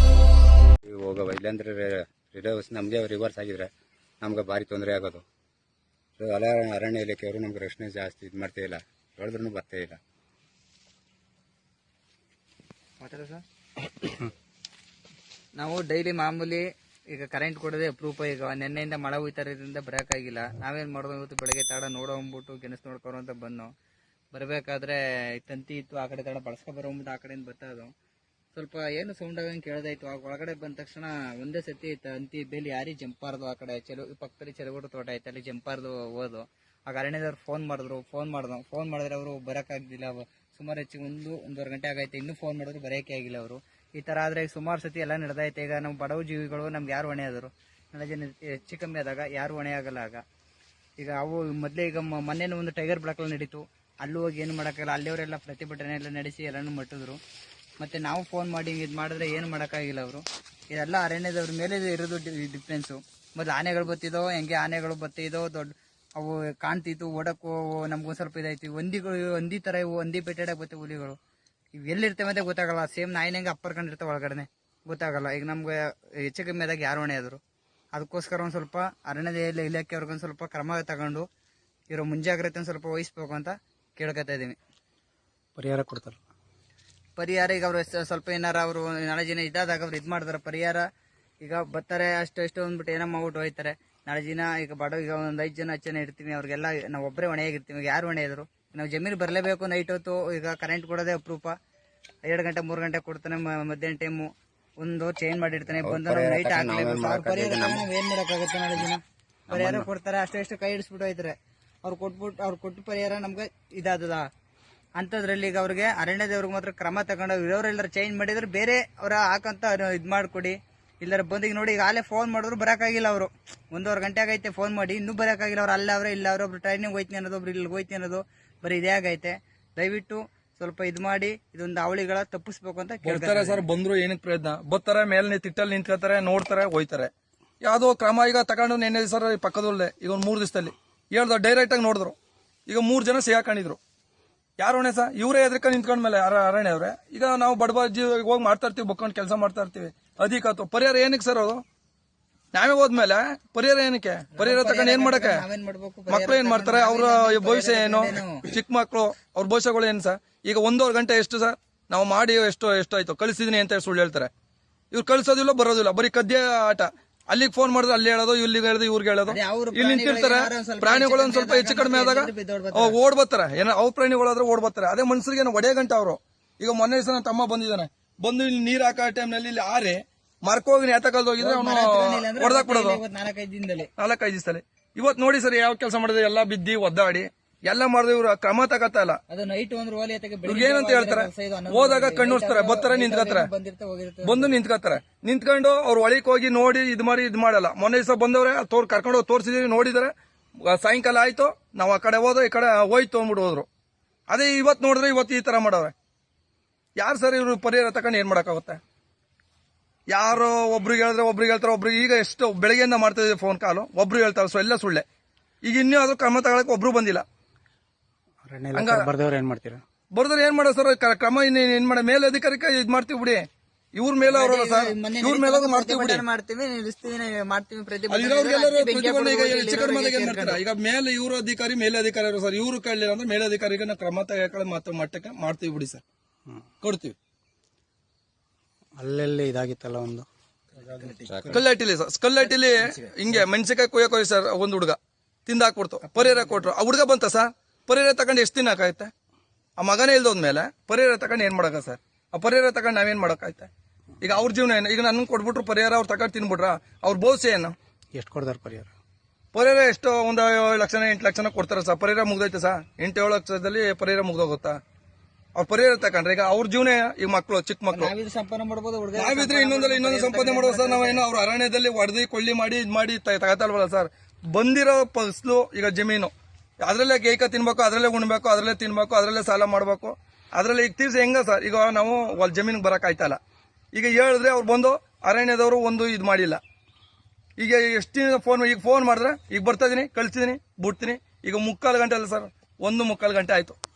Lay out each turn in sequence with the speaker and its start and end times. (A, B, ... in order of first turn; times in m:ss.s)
0:00.8-0:05.2 A
0:06.2-0:10.0 A
0:13.0-0:13.4 B
0:15.6-0:23.7 B
0:24.3-0:27.9 B
0:28.5-0:50.2 B
0:51.0-0:57.2 B
0:57.8-1:11.2 B
1:11.8-1:17.4 B
1:17.9-1:21.3 B
1:21.9-1:24.6 B
1:25.6-1:26.2 C
1:27.2-1:30.8 B
1:31.4-1:41.5 B
1:42.2-1:54.3 B
1:45.8-1:47.9 A
1:49.5-1:49.9 A
1:55.0-2:13.6 B
2:13.0-2:17.1 D
2:17.6-2:22.2 D
2:22.7-2:23.8 D
2:24.6-2:31.6 D
2:32.5-2:35.4 D
2:34.3-2:38.5 B
2:36.1-2:44.3 D
2:44.9-3:03.0 D
2:49.3-2:53.0 B
3:01.4-3:03.9 B
3:04.0-3:09.2 D
3:09.3-3:14.6 B
3:10.4-3:13.5 D
3:14.2-3:23.7 D
3:24.3-3:25.9 D
3:27.0-3:28.8 D
3:30.1-3:35.0 D
3:35.6-3:37.2 D
3:38.4-3:39.8 C
3:38.7-3:39.1 D
3:40.1-3:46.2 D
3:44.3-3:50.6 B
3:48.1-3:56.0 D
3:56.8-3:57.2 D
3:59.0-4:00.3 C
4:00.8-4:01.4 B
4:01.3-4:01.6 A
4:01.5-4:09.1 D
4:02.6-4:03.1 B
4:06.1-4:06.6 B
4:09.8-4:17.7 D
4:18.1-4:18.9 C
4:19.5-4:24.8 D
4:25.6-4:28.1 D
4:27.9-4:31.2 B
4:29.2-4:36.3 D
4:36.8-4:43.4 D
4:43.9-4:46.6 D
4:47.6-4:53.8 D